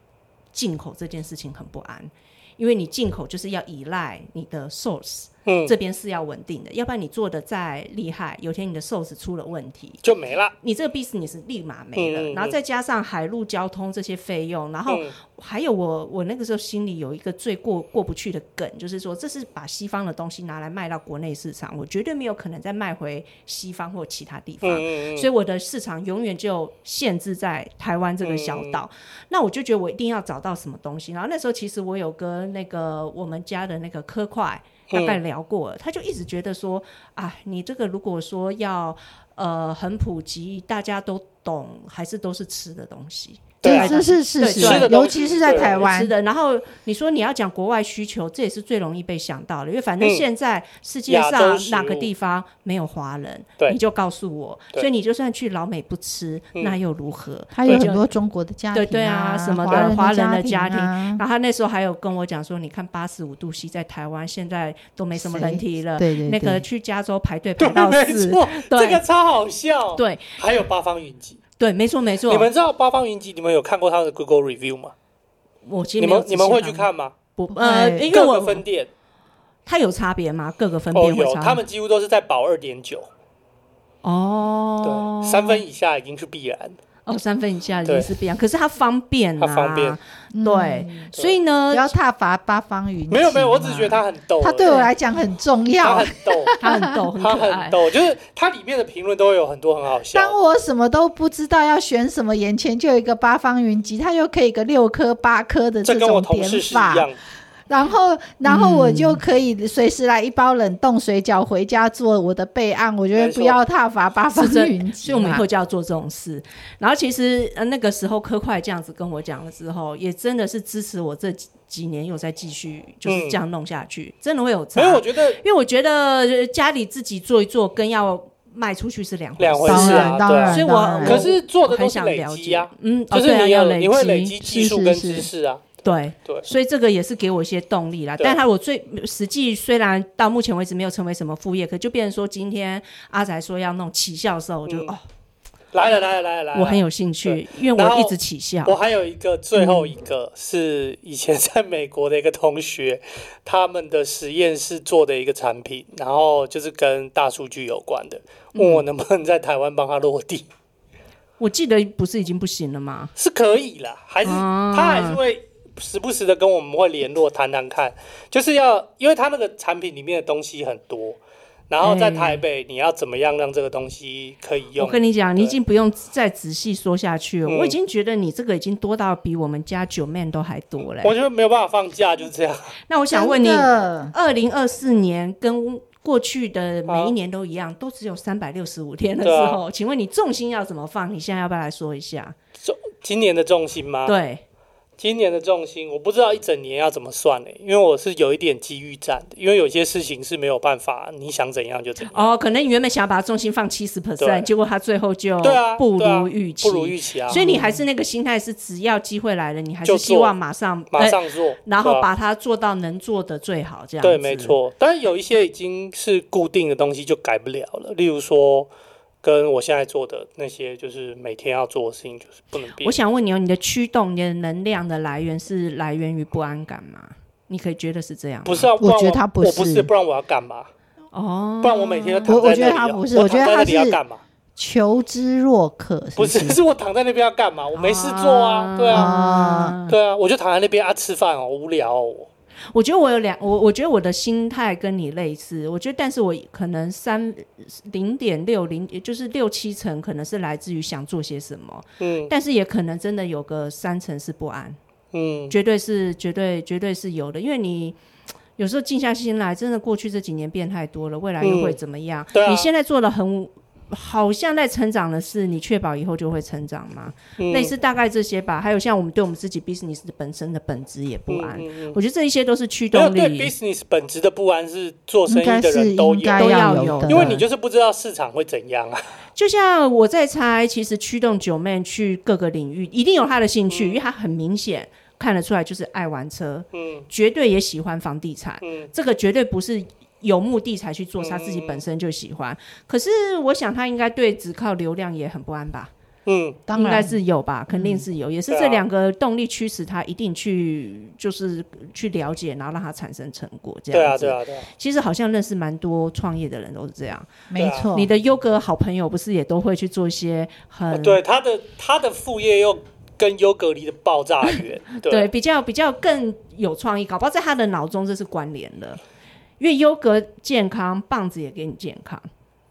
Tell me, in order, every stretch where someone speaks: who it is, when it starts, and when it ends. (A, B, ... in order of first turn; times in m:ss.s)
0:00.5-0:10.0 A
0:05.4-0:05.7 B
0:10.0-0:10.5 B
0:10.6-0:58.1 A
0:11.9-0:12.6 B
0:14.9-0:15.1 B
0:24.6-0:25.3 B
0:28.2-0:28.8 B
0:34.9-0:35.2 B
0:43.6-0:45.9 B
0:43.6-0:46.1 C
0:51.1-0:52.1 B
0:57.5-1:01.2 C
0:58.7-1:09.0 A
1:05.1-1:06.6 C
1:07.6-1:11.4 B
1:10.0-1:10.4 A
1:11.6-1:12.5 A
1:12.3-1:14.9 B
1:15.6-1:18.6 A
1:16.0-1:17.1 B
1:17.5-1:18.1 C
1:18.1-1:18.9 B
1:19.6-1:21.6 A
1:20.9-1:23.1 B
1:24.0-1:25.6 A
1:24.8-1:26.8 B
1:27.0-1:31.9 A
1:29.4-1:30.0 B
1:30.3-1:31.1 C
1:31.7-1:37.0 C
1:33.1-1:34.9 B
1:35.8-1:40.4 B
1:36.6-1:37.8 A
1:40.1-1:47.1 C
1:45.8-1:47.1 B
1:47.7-1:55.4 C
1:48.4-1:49.2 A
1:53.1-1:53.6 B
1:54.3-2:15.0 A
2:03.0-2:03.4 B
2:04.7-2:05.4 B
2:09.4-2:16.5 B
2:09.6-2:11.2 C
2:14.5-2:15.3 C
2:15.8-2:25.0 A
2:25.7-2:40.4 B
2:26.5-2:28.8 A
2:29.6-2:29.9 A
2:38.5-2:38.8 A
2:41.4-2:43.1 A
2:43.2-2:51.2 B
2:44.2-2:45.2 A
2:51.7-2:55.5 B
2:51.8-2:52.4 A
2:54.8-3:01.1 A
2:57.4-2:57.8 B
3:01.0-3:02.8 B
3:02.9-3:12.4 A
3:03.1-3:04.1 C
3:06.9-3:07.1 B
3:09.2-3:09.6 B
3:12.6-3:14.1 B
3:14.0-3:14.4 A
3:15.0-3:22.2 B
3:22.1-3:34.6 A
3:24.2-3:24.5 B
3:25.4-3:27.4 B
3:27.3-3:27.8 C
3:29.8-3:30.3 B
3:30.9-3:32.0 B
3:34.0-3:38.7 B
3:39.2-3:43.0 B
3:42.8-3:48.7 A
3:48.4-3:50.7 B
3:48.8-3:49.9 C
3:51.1-3:52.4 A
3:51.6-3:54.2 B
3:52.3-3:54.0 C
3:54.6-3:56.6 C
3:56.2-3:59.1 B
3:57.7-4:00.0 A
3:58.9-3:59.8 C
3:59.9-4:02.3 B
4:02.7-4:14.8 A
4:12.0-4:12.3 B
4:15.1-4:15.5 B
4:15.5-4:18.0 A
4:18.6-4:33.5 A
4:21.4-4:21.8 B
4:22.3-4:22.7 B
4:27.4-4:27.7 B
4:31.3-4:32.0 B
4:32.9-4:39.0 B
4:35.3-4:37.4 C
4:36.4-4:37.4 A
4:39.4-4:55.9 A
4:43.7-4:44.0 B
4:46.7-4:47.0 B
4:48.6-4:48.9 B
4:51.2-4:51.8 B
4:56.2-4:56.6 B
4:56.7-4:57.2 C
4:56.7-5:07.3 A
4:57.8-4:58.0 C
4:58.5-4:58.8 B
5:03.9-5:04.7 B
5:07.5-5:08.1 C
5:07.6-5:07.9 B
5:07.9-5:11.2 A
5:10.9-5:15.3 B
5:15.0-5:19.0 A
5:19.6-5:22.3 A